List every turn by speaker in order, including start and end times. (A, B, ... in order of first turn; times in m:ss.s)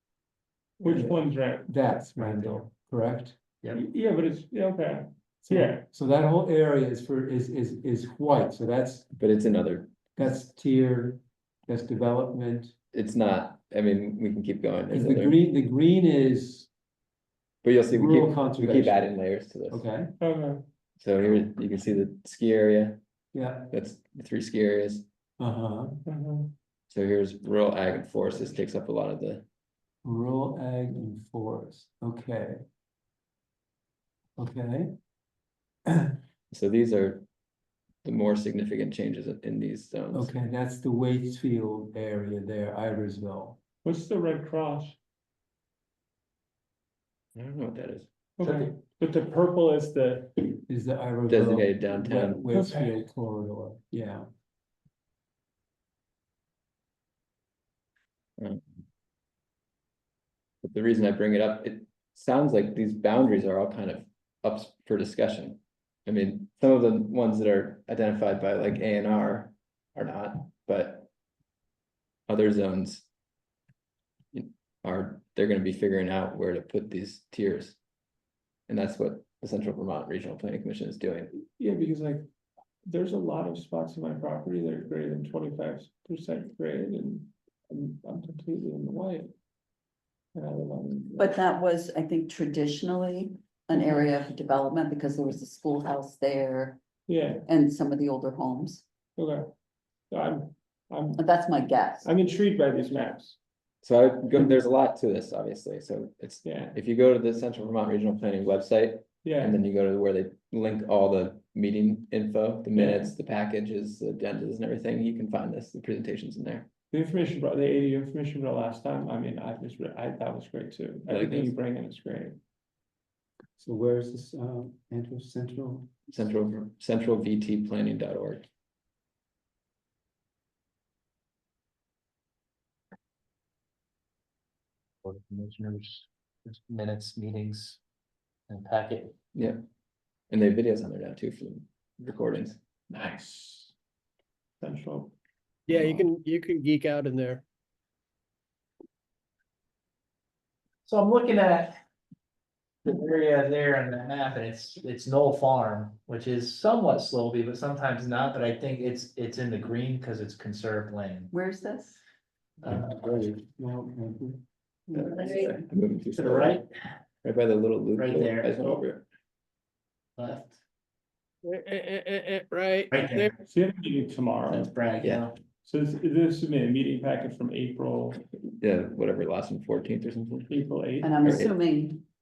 0:00.8-0:02.6 A
0:00.8-0:03.4 B
0:03.7-0:05.8 A
0:05.5-0:09.1 B
0:09.2-0:10.0 C
0:10.2-0:12.7 B
0:12.9-0:15.4 C
0:14.9-0:16.7 B
0:17.6-0:19.8 C
0:17.9-0:19.0 B
0:19.7-0:20.1 B
0:20.2-0:20.6 A
0:21.0-0:23.0 C
0:23.3-0:23.7 B
0:23.7-0:25.1 C
0:25.4-0:26.0 B
0:26.1-0:26.5 A
0:26.9-0:29.4 C
0:30.0-0:32.6 B
0:34.4-0:34.9 B
0:35.9-0:36.2 B
0:36.5-0:37.3 C
0:38.0-0:40.3 C
0:40.1-0:43.6 B
0:43.8-0:45.0 A
0:47.4-0:48.1 C
0:48.4-0:50.6 A
0:50.7-0:54.3 B
0:51.3-0:52.5 C
0:52.5-0:52.9 A
1:00.6-1:11.1 C
1:12.3-1:13.1 C
1:14.3-1:17.8 C
1:18.7-1:21.3 C
1:21.3-1:22.2 A
1:22.9-1:29.3 A
1:30.4-1:31.3 A
1:31.2-1:36.8 D
1:37.1-1:37.4 A
1:37.4-1:38.9 D
1:39.2-1:39.4 A
1:40.1-1:41.2 A
1:41.2-1:42.1 D
1:42.0-1:43.4 A
1:43.8-1:56.7 C
1:46.4-1:46.7 A
1:49.2-1:49.6 A
1:52.7-1:53.1 A
1:56.9-2:02.4 A
2:01.1-2:01.5 C
2:03.6-2:05.9 B
2:06.1-2:08.5 C
2:15.0-2:17.8 E
2:18.5-2:19.2 E
2:19.3-2:19.6 C
2:20.3-2:22.6 C
2:22.9-2:23.7 A
2:24.6-2:25.1 A
2:25.7-2:27.4 F
2:25.7-2:26.1 C
2:30.8-2:31.8 E
2:32.8-2:41.3 E
2:41.3-2:42.0 D
2:42.6-2:42.9 E
2:42.7-2:44.4 B
2:44.9-2:45.6 D
2:44.9-2:46.6 C
2:46.1-2:46.7 E
2:47.2-2:49.0 C
2:48.0-2:48.6 E
2:50.2-2:50.6 E
2:51.4-2:53.3 F
2:52.9-2:53.3 E
2:53.5-2:54.7 A
2:54.5-2:55.3 E
2:55.0-2:55.3 C
2:55.6-2:58.2 A
2:58.4-3:00.5 C
3:00.5-3:01.4 A
3:01.0-3:02.0 D
3:01.2-3:01.5 C